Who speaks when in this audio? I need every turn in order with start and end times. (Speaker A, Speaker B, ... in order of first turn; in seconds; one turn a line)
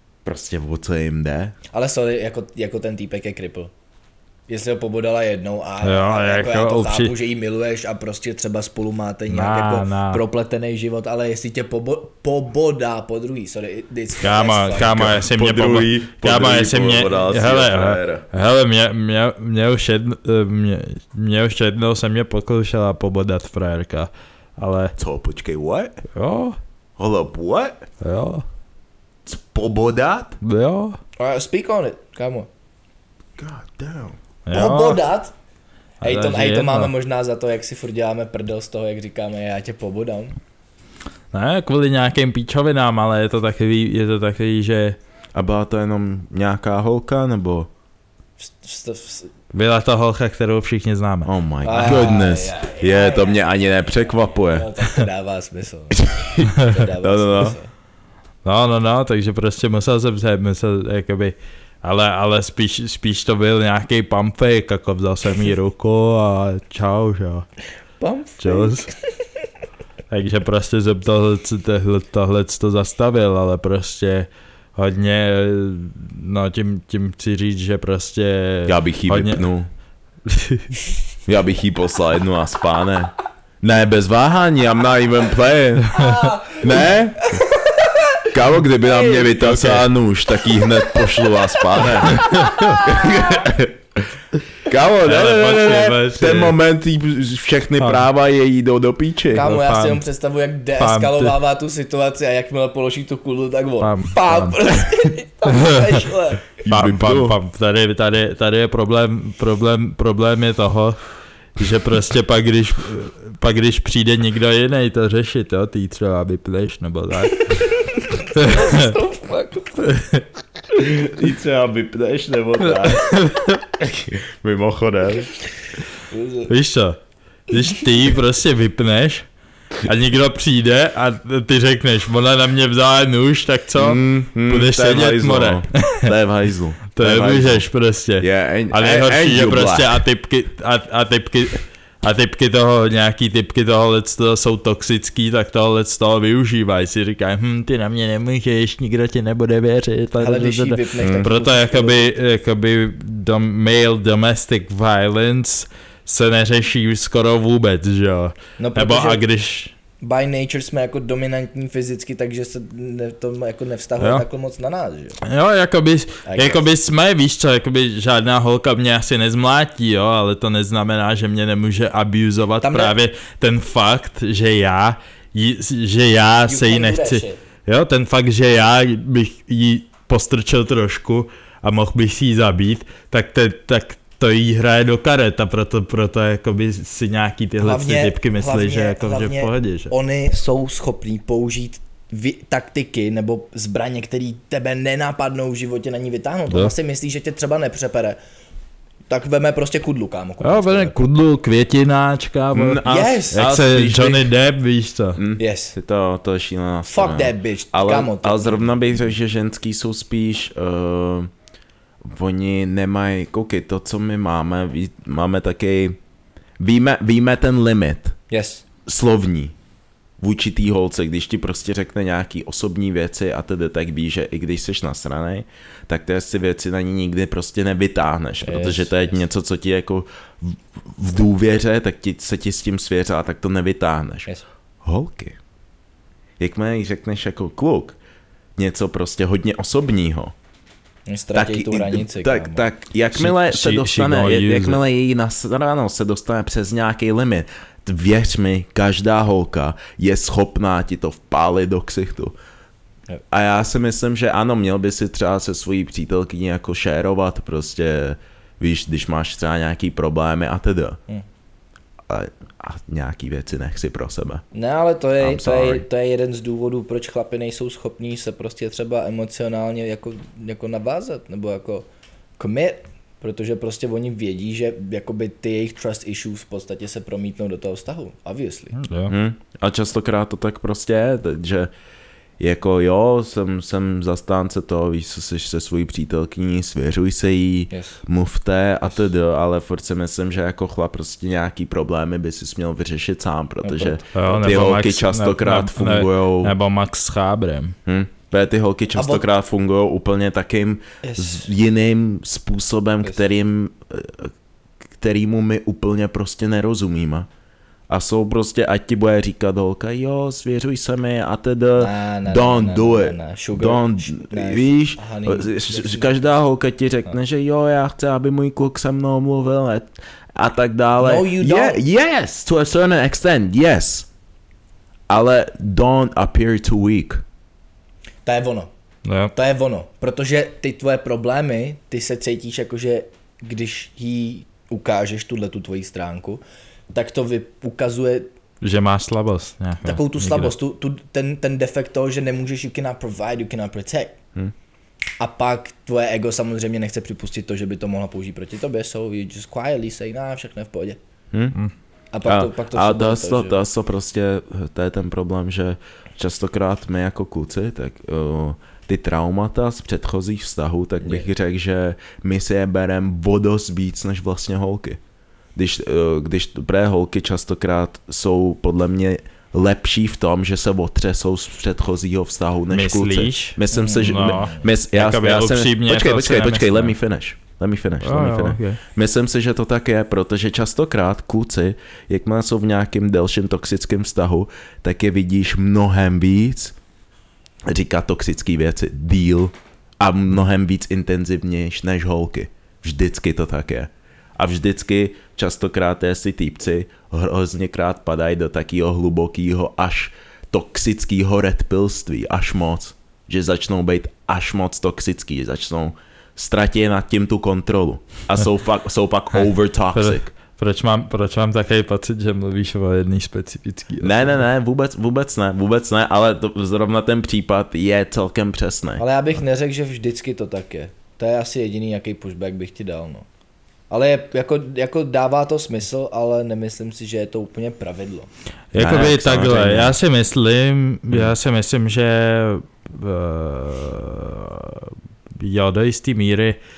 Speaker A: 0.2-1.6
Speaker B: 1.7-3.7
Speaker B: 4.5-15.2
Speaker C: 5.8-7.2
Speaker C: 9.3-10.2
Speaker C: 14.2-24.9
Speaker A: 14.8-18.3
Speaker A: 25.0-26.0
Speaker C: 26.1-26.6
Speaker A: 27.0-27.9
Speaker C: 28.0-28.4
Speaker A: 29.3-30.4
Speaker C: 30.4-31.0
Speaker B: 31.2-32.5
Speaker A: 33.4-34.2
Speaker C: 34.5-35.0
Speaker B: 34.5-35.4
Speaker C: 36.0-36.9
Speaker B: 36.0-40.4
Speaker C: 41.3-45.0
Speaker A: 45.4-47.7
Speaker B: 48.4-49.3
Speaker C: 49.5-52.2
Speaker A: 51.2-54.7
Speaker B: 51.6-53.4
Speaker B: 54.4-57.7
Speaker A: 55.9-57.6
Speaker C: 56.6-56.8
Speaker C: 58.5-67.5
Speaker B: 68.0-69.3
Speaker C: 68.4-68.9
Speaker C: 70.1-79.5
Speaker A: 78.7-79.7
Speaker C: 80.3-80.7
Speaker A: 81.3-87.3
Speaker C: 85.9-86.3
Speaker B: 86.0-88.2
Speaker A: 88.3-93.8
Speaker B: 88.8-89.3
Speaker C: 89.3-89.9
Speaker B: 91.8-93.2
Speaker C: 92.1-92.8
Speaker A: 94.7-99.5
Speaker C: 95.0-96.6
Speaker C: 97.8-98.1
Speaker B: 99.3-106.5
Speaker C: 99.4-100.0
Speaker C: 100.8-101.3
Speaker C: 103.8-104.7
Speaker C: 105.5-106.0
Speaker A: 106.6-107.4
Speaker C: 106.7-111.0
Speaker C: 111.6-117.8
Speaker B: 117.5-119.9
Speaker C: 118.3-118.9
Speaker C: 119.8-120.3
Speaker A: 120.9-123.1
Speaker C: 122.7-123.6
Speaker A: 123.8-125.3
Speaker B: 126.1-126.5
Speaker C: 126.5-129.3
Speaker C: 129.8-136.1
Speaker A: 133.8-137.7
Speaker C: 137.0-159.7
Speaker A: 138.2-140.0
Speaker B: 150.2-152.1
Speaker A: 151.0-151.3
Speaker B: 158.6-159.2
Speaker B: 160.0-165.2
Speaker C: 164.0-164.2
Speaker C: 165.2-189.9
Speaker B: 166.3-166.6
Speaker B: 172.6-173.0
Speaker B: 176.5-177.4
Speaker B: 187.6-198.2
Speaker B: 199.1-201.0
Speaker C: 200.4-205.2
Speaker A: 202.5-204.3
Speaker B: 202.8-203.5
Speaker A: 205.2-211.3
Speaker B: 205.4-205.8
Speaker B: 206.8-208.7
Speaker A: 212.0-216.0
Speaker A: 216.6-218.2
Speaker B: 218.3-218.6
Speaker A: 218.9-219.6
Speaker A: 220.2-234.3
Speaker B: 228.4-229.1
Speaker A: 234.8-235.4
Speaker A: 236.4-238.0
Speaker A: 238.6-240.3
Speaker B: 241.1-242.6
Speaker A: 241.3-252.3
Speaker C: 243.2-244.8
Speaker A: 253.3-261.0
Speaker A: 262.1-264.4
Speaker B: 264.5-278.8
Speaker A: 265.2-265.8
Speaker C: 278.8-279.1
Speaker A: 279.1-281.7
Speaker A: 282.4-296.5
Speaker B: 287.7-288.0
Speaker B: 293.6-294.6
Speaker C: 294.1-297.8
Speaker A: 297.9-304.3
Speaker B: 298.9-299.2
Speaker B: 301.0-301.5
Speaker A: 305.0-307.3
Speaker A: 307.9-324.1
Speaker B: 311.8-316.1
Speaker B: 321.0-321.8
Speaker A: 325.1-327.2
Speaker B: 328.2-328.7
Speaker C: 329.1-329.3
Speaker B: 329.3-338.3
Speaker C: 338.6-340.5
Speaker B: 339.8-344.2
Speaker B: 345.2-351.0
Speaker A: 351.3-351.6
Speaker B: 352.1-353.6
Speaker A: 352.2-365.0
Speaker A: 365.6-386.8
Speaker C: 372.7-376.9
Speaker B: 373.7-374.6
Speaker C: 378.0-378.8
Speaker A: 387.7-410.3
Speaker C: 409.9-414.4
Speaker A: 414.0-419.0
Speaker B: 419.0-423.3
Speaker B: 423.9-428.3
Speaker C: 428.7-436.6
Speaker A: 428.8-430.0